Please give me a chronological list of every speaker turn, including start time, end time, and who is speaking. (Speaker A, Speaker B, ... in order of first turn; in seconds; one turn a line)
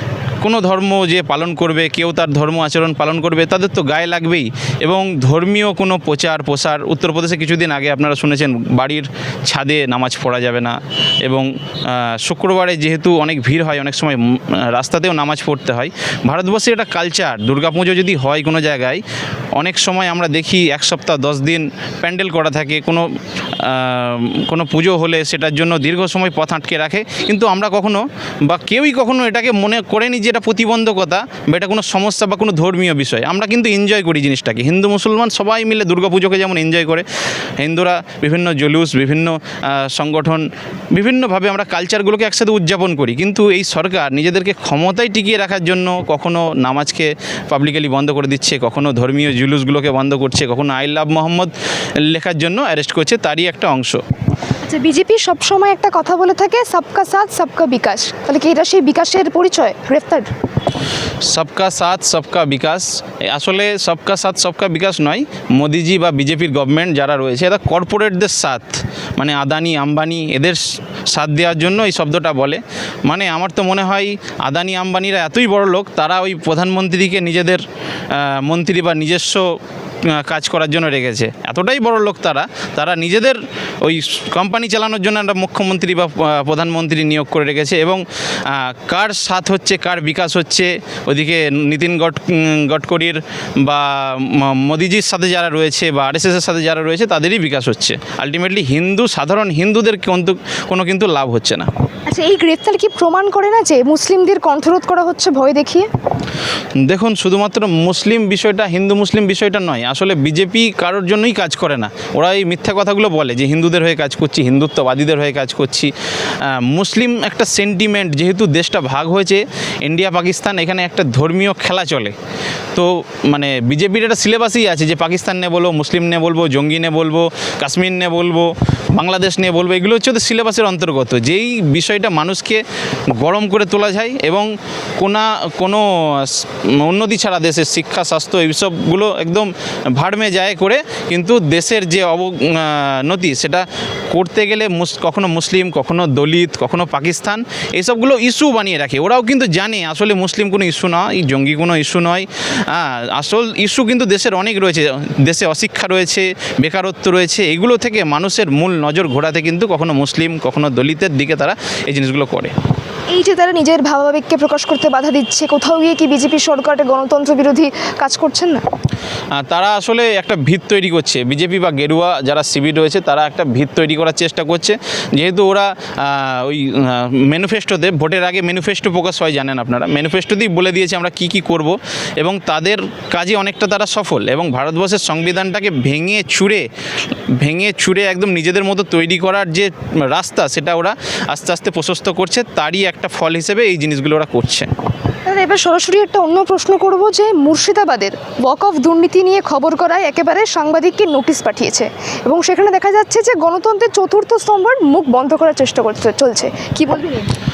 Speaker A: 0.4-19.0
Speaker A: 19.6-37.0
Speaker A: 37.6-54.0
Speaker B: 54.6-60.3
Speaker A: 61.3-101.7
Speaker B: 102.1-105.9
Speaker A: 106.8-122.1
Speaker A: 122.7-162.5
Speaker B: 163.1-168.6
Speaker A: 169.3-186.7
Speaker A: 187.4-194.7
Speaker B: 195.2-207.3